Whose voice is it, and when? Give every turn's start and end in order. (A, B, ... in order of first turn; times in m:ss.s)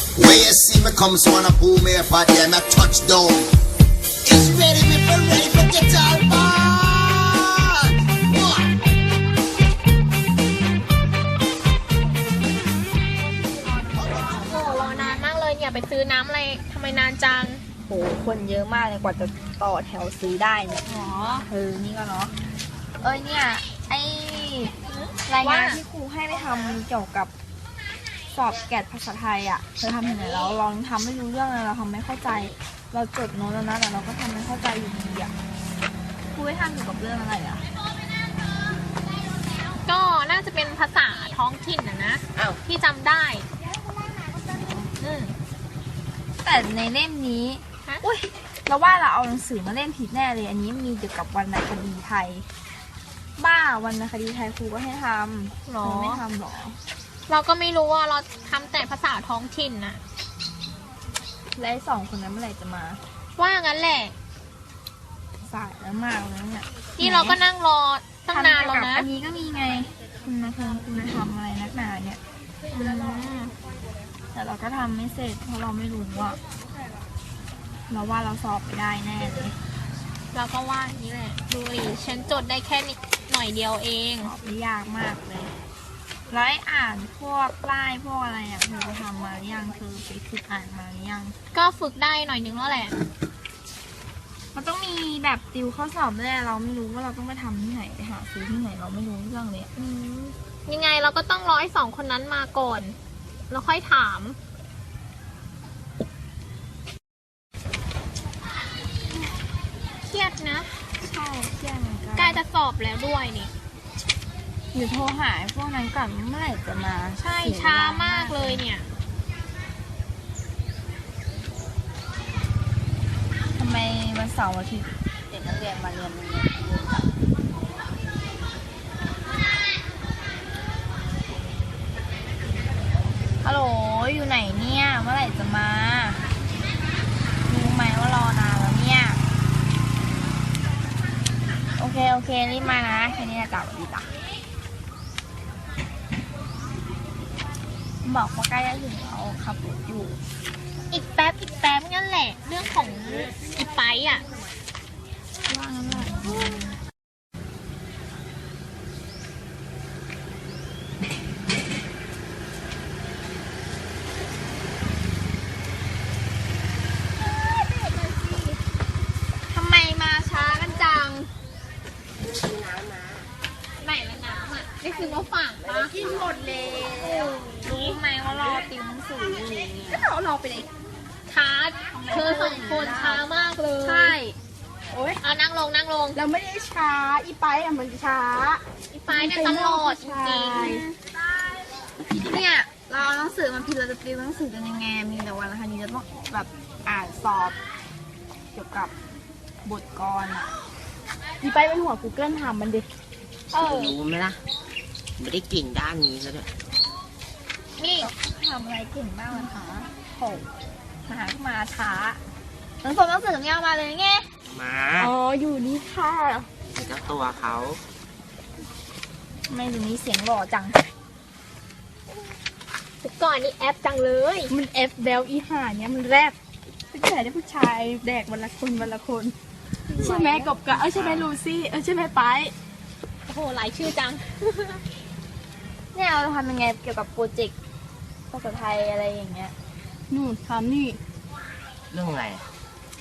0:00.1-0:03.5 A
0:04.2-0:08.7 A
0:13.4-0:14.7 B
0:13.9-0:14.8 A
0:14.4-0:17.6 C
0:17.8-0:20.8 B
0:20.8-0:21.4 C
0:21.5-0:22.3 B
0:23.0-0:24.7 B
0:24.9-0:25.8 C
0:25.3-0:27.3 B
0:28.3-0:35.3 B
0:36.3-0:37.6 B
0:39.8-0:43.4 C
0:44.4-0:44.9 B
0:45.0-0:45.4 C
0:46.4-0:52.5 B
0:53.4-0:56.8 B
0:55.6-0:56.2 C
0:57.3-1:00.0 C
1:01.6-1:03.0 B
1:03.4-1:04.1 C
1:05.4-1:07.4 B
1:07.0-1:09.1 C
1:08.3-1:12.2 B
1:12.7-1:13.5 B
1:12.8-1:13.5 D
1:14.3-1:16.4 B
1:17.9-1:19.5 B
1:20.3-1:24.3 C
1:24.2-1:25.5 B
1:26.3-1:31.3 B
1:31.5-1:33.0 C
1:34.5-1:39.7 B
1:39.7-1:43.0 C
1:43.5-1:44.4 C
1:50.0-1:50.8 C
1:51.0-1:52.4 B
1:52.1-1:53.5 C
1:54.7-1:58.6 B
1:57.2-1:58.9 C
2:03.6-2:07.1 B
2:13.4-2:16.2 B
2:17.4-2:19.2 B
2:21.8-2:24.1 B
2:28.0-2:30.2 B
2:30.9-2:34.2 C
2:35.5-2:36.6 B
2:49.5-2:51.3 B
2:52.2-2:53.3 E
2:53.8-2:55.9 C
2:55.6-2:56.1 E
2:56.0-2:57.4 D
2:56.1-3:00.0 B
2:57.6-2:58.0 C
2:59.9-3:00.7 D
3:01.3-3:03.6 C
3:01.9-3:03.2 B
3:03.5-3:04.2 D
3:03.8-3:04.4 B
3:04.9-3:05.2 D
3:05.2-3:06.2 C
3:06.1-3:10.9 D
3:08.9-3:10.8 C
3:10.5-3:10.8 B
3:12.1-3:17.6 B
3:18.5-3:18.9 B
3:19.6-3:20.5 B
3:21.4-3:22.9 D
3:23.5-3:23.9 C
3:23.5-3:24.4 E
3:25.2-3:26.5 E
3:27.8-3:28.1 C
3:28.0-3:30.4 B
3:29.3-3:29.9 D
3:31.1-3:32.2 B
3:32.8-3:34.3 B
3:34.5-3:35.1 E
3:35.0-3:36.5 D
3:36.7-3:37.8 E
3:39.5-3:40.9 B
3:43.0-3:44.5 C
3:44.5-3:46.4 D
3:46.9-3:49.3 D
3:50.0-3:52.5 D
3:50.0-3:50.5 B
3:50.7-3:51.3 E
3:53.2-3:54.8 C
3:55.9-3:57.5 B
3:58.3-3:59.5 B
4:00.1-4:01.0 D
4:01.9-4:02.4 E